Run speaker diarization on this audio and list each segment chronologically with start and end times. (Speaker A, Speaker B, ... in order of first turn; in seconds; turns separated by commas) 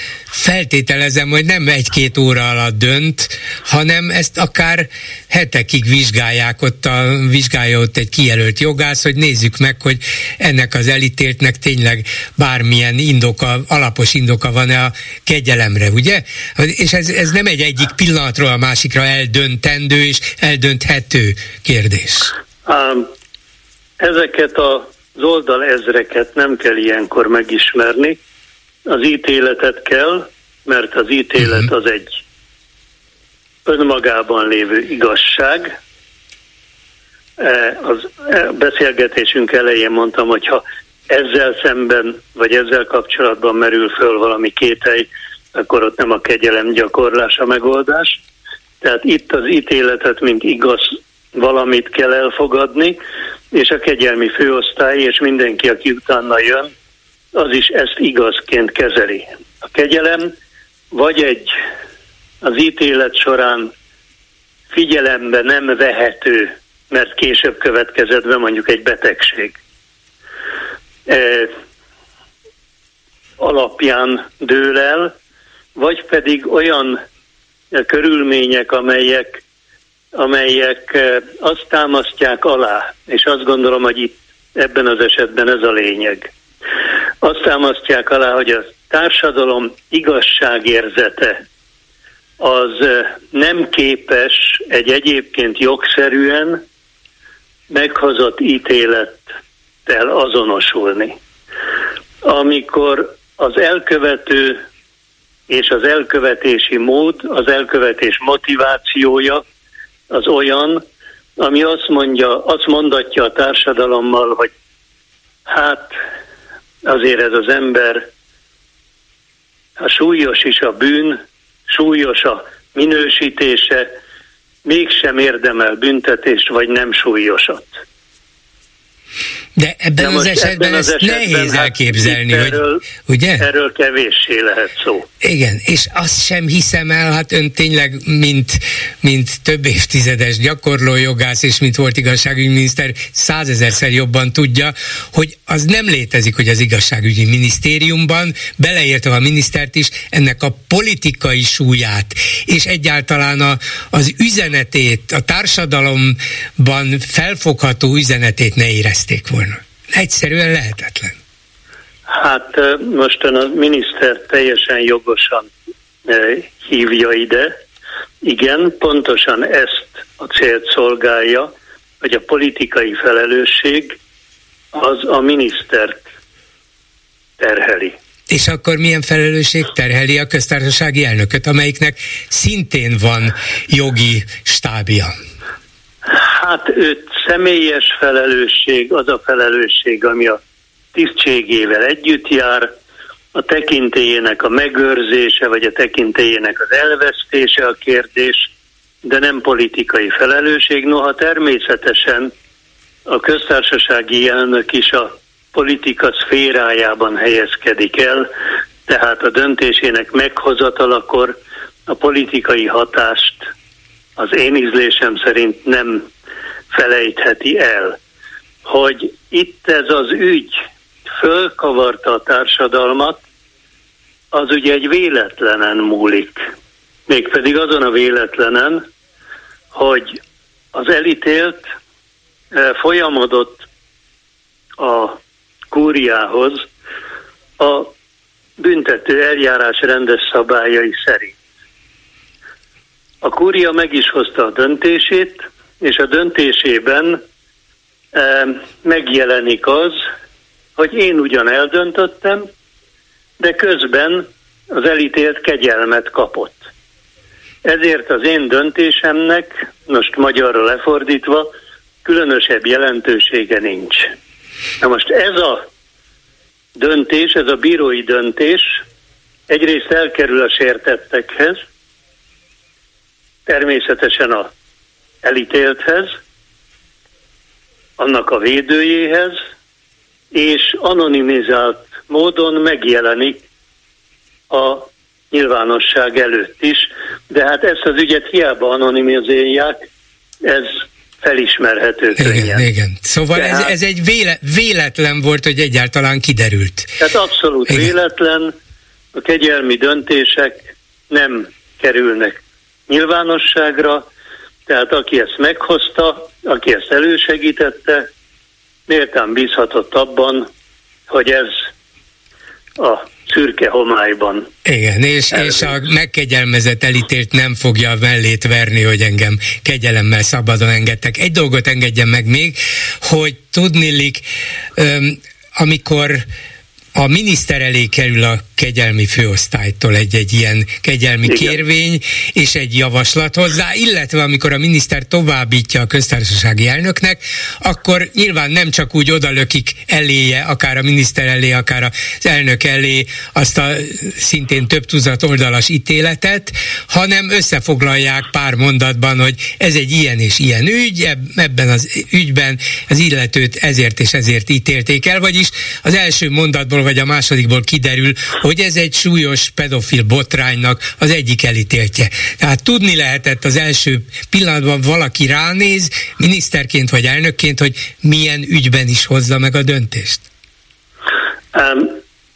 Speaker A: 0.3-22.3, Speaker B: 22.6-23.1, Speaker B: 24.0-28.2, Speaker B: 28.9-32.2, Speaker B: 33.6-35.8, Speaker B: 37.4-48.2, Speaker B: 48.8-53.0, Speaker B: 53.5-56.7, Speaker B: 57.3-60.3, Speaker B: 60.9-61.5, Speaker B: 62.4-63.7, Speaker B: 64.7-69.6, Speaker B: 71.1-71.5, Speaker B: 73.4-75.1, Speaker B: 75.8-77.0, Speaker B: 77.7-79.4, Speaker B: 80.1-86.3, Speaker B: 87.2-91.4, Speaker B: 92.4-96.6, Speaker B: 97.7-99.2, Speaker B: 99.8-101.2, Speaker B: 102.2-104.6, Speaker B: 105.5-109.4, Speaker B: 110.1-110.8, Speaker B: 111.4-114.5, Speaker B: 115.5-115.9, Speaker B: 116.8-118.1, Speaker B: 119.8-123.9, Speaker B: 124.6-127.8, Speaker A: 129.6-133.4, Speaker B: 130.0-132.8, Speaker B: 133.4-135.1, Speaker A: 135.2-161.1, Speaker B: 162.1-165.5, Speaker B: 166.1-167.6, Speaker B: 168.2-174.0, Speaker B: 174.7-176.1, Speaker B: 177.4-177.9, Speaker A: 178.3-185.1, Speaker B: 186.1-190.4, Speaker B: 190.9-192.7, Speaker B: 193.3-198.5, Speaker B: 199.0-202.3, Speaker B: 203.1-208.3, Speaker B: 208.9-211.3, Speaker B: 211.9-213.5, Speaker B: 214.2-216.1, Speaker B: 216.7-218.0, Speaker B: 218.6-220.6, Speaker B: 221.2-223.2, Speaker B: 224.3-226.4, Speaker B: 227.1-228.9, Speaker B: 229.7-230.2, Speaker B: 230.7-231.7, Speaker B: 232.5-233.7, Speaker B: 234.8-235.2, Speaker B: 235.7-236.7, Speaker B: 237.6-237.9, Speaker B: 238.6-241.3, Speaker B: 243.2-247.2, Speaker B: 248.1-250.0, Speaker B: 250.8-252.5, Speaker B: 253.4-256.6, Speaker B: 257.6-261.5, Speaker B: 262.0-264.1, Speaker B: 264.8-265.6, Speaker B: 266.8-268.8, Speaker B: 269.5-271.6, Speaker B: 273.5-274.5, Speaker B: 275.2-276.1, Speaker B: 278.0-279.4, Speaker B: 280.3-283.4, Speaker B: 284.5-289.8, Speaker B: 290.4-292.6, Speaker A: 292.2-296.9, Speaker B: 293.3-293.7, Speaker B: 297.0-298.5, Speaker A: 297.7-297.9, Speaker B: 299.1-304.1, Speaker B: 304.7-308.1, Speaker B: 308.9-310.5, Speaker B: 311.1-311.6, Speaker B: 312.8-314.5, Speaker A: 314.6-324.2, Speaker B: 315.4-315.7, Speaker A: 324.8-326.2, Speaker A: 326.9-370.2, Speaker B: 331.2-331.6, Speaker B: 371.5-372.0